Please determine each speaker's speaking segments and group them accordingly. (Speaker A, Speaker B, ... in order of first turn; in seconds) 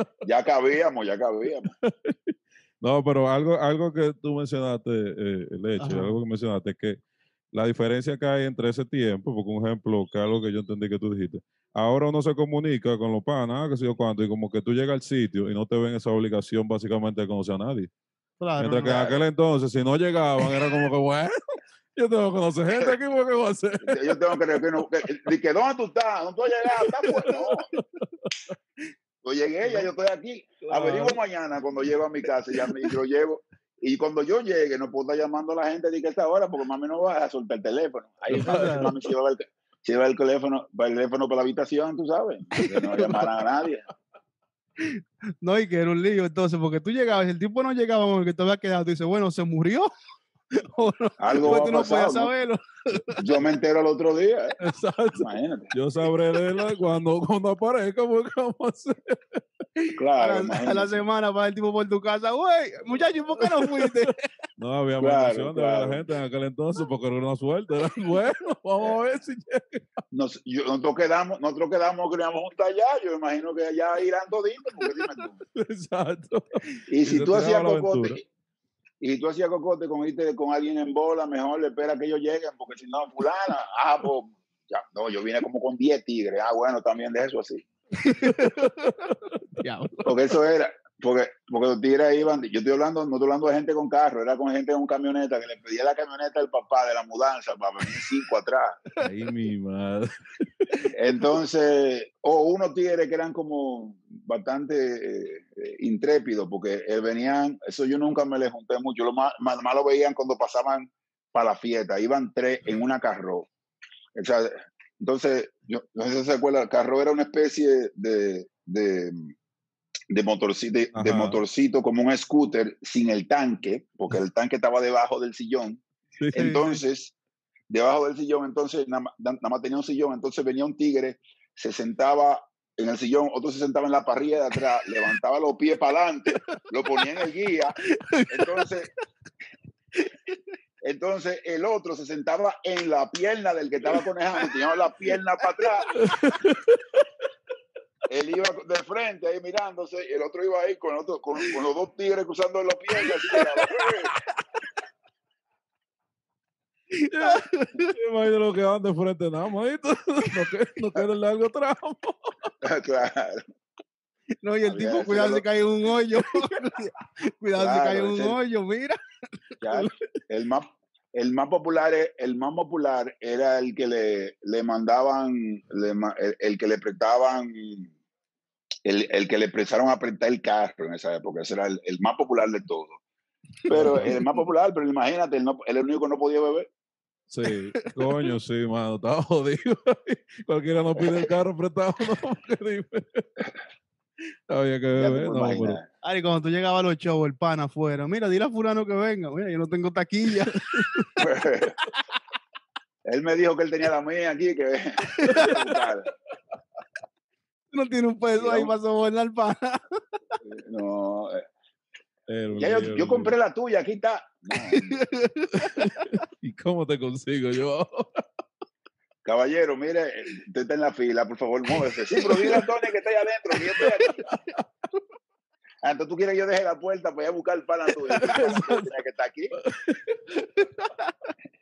Speaker A: 0.2-1.7, 18.8-19.2, 23.8-27.7, 29.2-43.9, 51.2-52.3, 53.2-54.6, 55.2-55.7, 60.0-61.0, 65.0-66.1, 70.1-75.4, 76.9-78.2, 79.0-87.7, 90.0-98.8, 100.8-113.5, 114.2-119.3, 120.1-127.2, 127.7-137.8, 138.3-138.9, 140.8-145.9, 148.1-154.1, 162.6-163.5, 164.7-165.4, 167.6-168.4, 169.6-177.9, 178.8-183.0, 183.7-186.7, 194.9-195.9, 201.2-201.8, 203.1-206.1, 208.3-208.7, 210.4-211.4, 212.5-215.0, 219.2-224.2, 225.8-229.6
Speaker B: 1.8-7.0, 7.5-17.9, 18.6-21.4, 21.9-24.2, 26.8-28.3, 30.7-31.2, 38.3-39.0, 42.6-43.3, 54.6-59.4, 63.4-69.8, 75.5-78.2, 88.2-89.4, 99.0-100.7, 121.0-121.4, 126.2-126.6, 146.0-146.8, 157.1-162.5, 183.7-184.2, 187.3-193.3, 194.5-195.8, 200.4-201.1, 205.3-205.6, 212.3-213.3, 215.6-218.2, 222.3-222.7, 223.8-224.6, 228.2-228.9, 229.6-230.2
Speaker C: 5.8-6.2, 18.4-19.0, 38.4-38.9, 44.8-49.9, 50.5-53.2, 59.8-64.2, 88.0-89.0, 89.6-90.1, 126.3-126.8, 137.8-138.7, 157.0-157.9, 164.4-169.0, 196.0-201.2, 205.2-205.6, 207.7-210.0, 214.7-216.1, 230.6-231.1